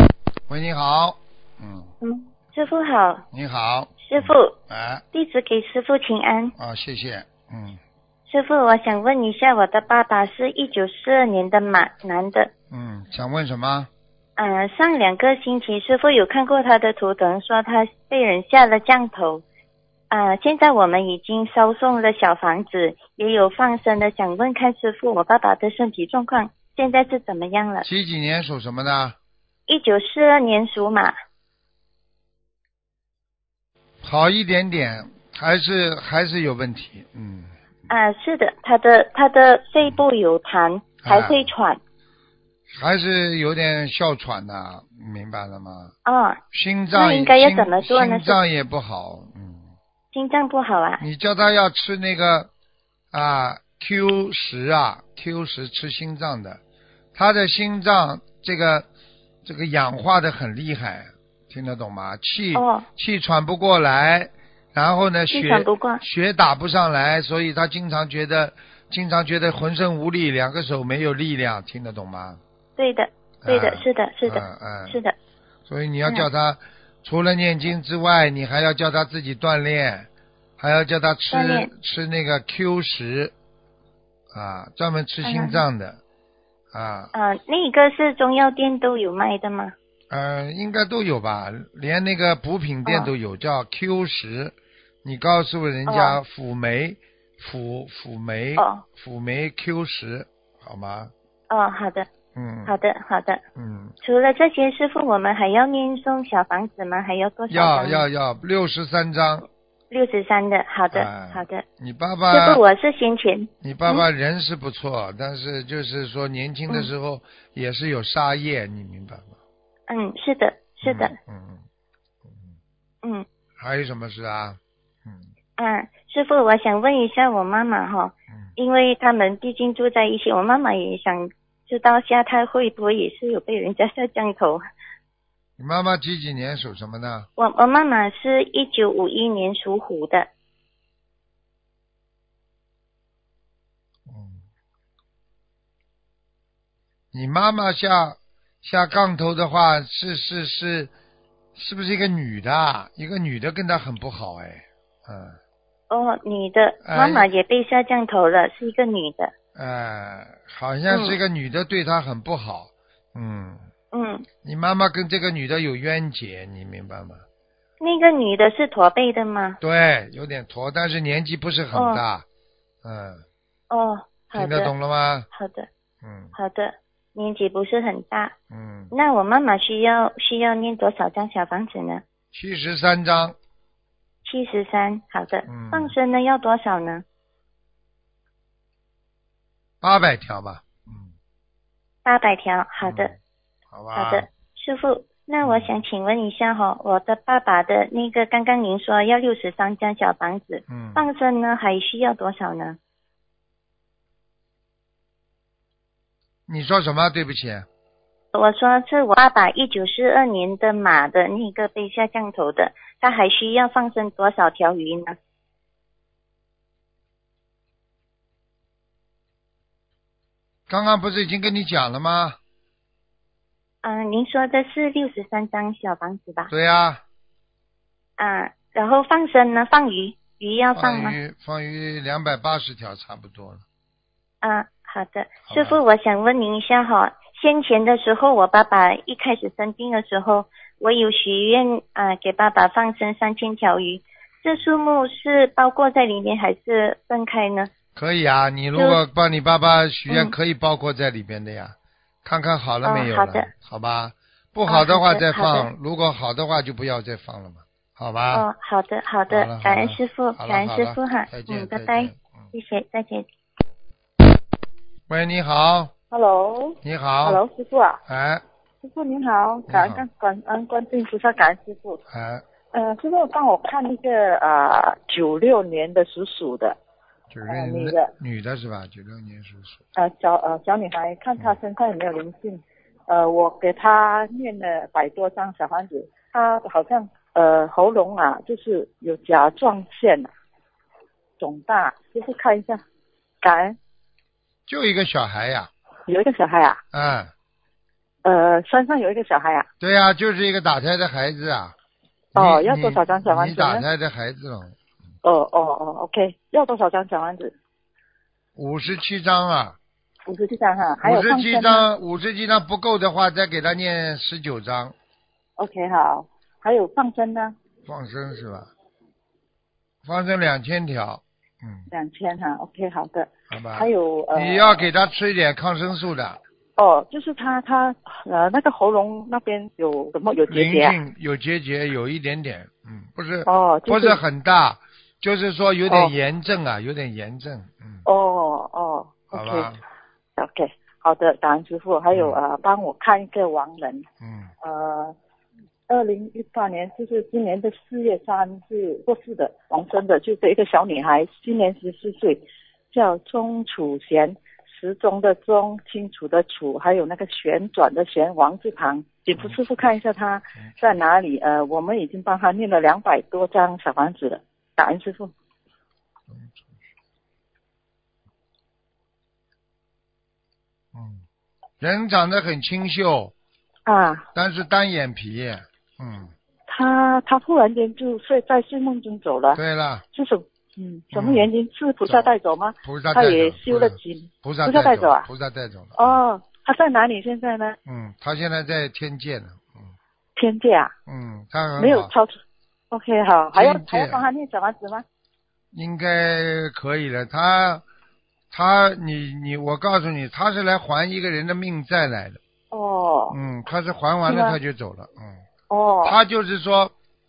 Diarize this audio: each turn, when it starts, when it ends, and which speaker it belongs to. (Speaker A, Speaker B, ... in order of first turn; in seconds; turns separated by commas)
Speaker A: 0.5-1.9, Speaker B: 2.0-3.2, Speaker A: 3.3-5.0, Speaker B: 4.0-4.6, Speaker B: 5.1-6.5, Speaker A: 6.6-7.8, Speaker B: 8.3-12.5, Speaker A: 12.7-13.9, Speaker B: 14.4-19.4, Speaker B: 20.1-27.9, Speaker A: 27.8-29.1, Speaker B: 29.7-31.1, Speaker A: 34.0-37.5, Speaker B: 37.9-41.8, Speaker A: 41.0-41.5, Speaker A: 42.7-45.9, Speaker B: 46.0-46.4, Speaker A: 46.5-49.7, Speaker B: 46.9-48.4, Speaker B: 50.1-51.0, Speaker A: 51.0-52.5, Speaker A: 53.1-56.6, Speaker A: 57.1-58.9, Speaker A: 59.4-72.4, Speaker B: 62.5-62.8, Speaker B: 65.3-66.0, Speaker B: 72.8-75.1, Speaker A: 73.4-75.0, Speaker A: 75.7-83.3, Speaker B: 81.3-81.7, Speaker A: 84.3-86.0, Speaker B: 85.2-85.6, Speaker A: 86.7-87.1, Speaker B: 87.1-89.7, Speaker A: 90.1-101.1, Speaker B: 92.8-93.1, Speaker B: 95.9-96.2, Speaker B: 98.6-98.8, Speaker B: 101.5-102.1, Speaker A: 102.3-102.8, Speaker B: 102.7-103.4, Speaker A: 103.5-103.9, Speaker B: 104.0-108.0, Speaker A: 107.5-109.5, Speaker B: 109.9-111.6, Speaker A: 110.9-112.6, Speaker B: 112.3-114.0, Speaker A: 113.6-119.3, Speaker B: 119.9-121.1, Speaker A: 120.8-121.6, Speaker A: 122.2-122.5, Speaker A: 123.6-125.2, Speaker B: 125.6-134.6, Speaker A: 135.6-137.3, Speaker B: 137.4-140.3, Speaker A: 144.1-144.4, Speaker A: 147.1-150.9, Speaker A: 151.5-155.4, Speaker B: 155.9-159.3, Speaker A: 156.8-157.2, Speaker A: 159.5-163.7, Speaker B: 160.9-161.2, Speaker B: 163.9-164.2, Speaker A: 164.4-167.2, Speaker B: 167.8-169.6, Speaker A: 169.6-172.2, Speaker B: 171.7-172.0, Speaker A: 172.8-173.2, Speaker B: 173.7-174.7, Speaker A: 174.3-175.3, Speaker B: 175.3-175.7, Speaker A: 176.0-176.3, Speaker B: 176.3-178.3, Speaker A: 178.5-178.9, Speaker B: 178.9-182.0, Speaker A: 182.3-183.3, Speaker B: 184.2-187.0, Speaker A: 185.5-185.9, Speaker A: 189.8-191.1, Speaker B: 192.0-193.1, Speaker A: 192.8-193.2, Speaker A: 193.7-194.2, Speaker B: 193.9-202.8, Speaker A: 195.4-195.7, Speaker A: 200.7-201.0, Speaker A: 206.5-207.7, Speaker B: 208.3-215.2, Speaker A: 220.7-222.4, Speaker B: 223.8-226.5, Speaker A: 226.5-227.0, Speaker B: 228.2-231.2, Speaker A: 230.7-233.6, Speaker B: 234.4-247.7, Speaker A: 235.5-235.8, Speaker A: 247.9-258.4, Speaker B: 250.1-250.3, Speaker B: 252.8-253.5, Speaker B: 254.7-255.7, Speaker B: 258.3-263.2, Speaker A: 259.3-262.5, Speaker A: 265.1-265.9, Speaker C: 266.1-268.0, Speaker A: 266.8-267.4, Speaker A: 268.1-268.4, Speaker C: 268.8-272.0, Speaker A: 269.7-270.0, Speaker A: 272.1-272.4, Speaker C: 272.7-276.8, Speaker A: 277.3-279.8, Speaker C: 277.5-278.1, Speaker C: 279.9-290.3, Speaker C: 291.4-292.8, Speaker C: 293.4-293.8, Speaker A: 294.7-295.7, Speaker C: 296.1-296.8, Speaker A: 296.9-297.3, Speaker C: 298.2-299.7, Speaker A: 299.8-301.7, Speaker A: 302.3-304.7, Speaker C: 302.3-303.8, Speaker C: 305.2-307.6, Speaker A: 308.6-309.8, Speaker C: 310.3-311.9, Speaker A: 311.0-314.9, Speaker C: 315.6-317.5, Speaker A: 317.9-318.7, Speaker A: 320.0-321.9, Speaker C: 321.9-324.9, Speaker A: 323.5-326.4, Speaker C: 326.8-330.9, Speaker A: 330.5-338.0, Speaker C: 333.4-334.2, Speaker C: 338.1-339.7, Speaker A: 339.3-339.8, Speaker C: 340.4-344.1, Speaker A: 342.1-342.4, Speaker A: 344.2-344.5, Speaker C: 344.6-345.1, Speaker C: 345.9-365.3, Speaker A: 360.7-361.0, Speaker A: 366.3-366.8, Speaker A: 370.9-371.2, Speaker A: 371.8-373.3, Speaker C: 373.9-374.2, Speaker A: 374.3-376.3, Speaker C: 376.7-379.6, Speaker A: 379.5-380.0, Speaker C: 380.1-385.2, Speaker A: 381.1-381.5, Speaker A: 382.8-386.2, Speaker C: 386.0-387.8, Speaker A: 387.9-389.9, Speaker C: 390.4-390.9, Speaker A: 391.1-392.1, Speaker C: 391.8-392.4, Speaker C: 392.9-395.0, Speaker A: 393.5-394.2, Speaker A: 395.7-397.8, Speaker A: 398.5-402.4, Speaker C: 402.7-403.4, Speaker A: 403.3-405.4, Speaker C: 404.2-404.6, Speaker C: 405.7-406.2, Speaker A: 406.0-406.9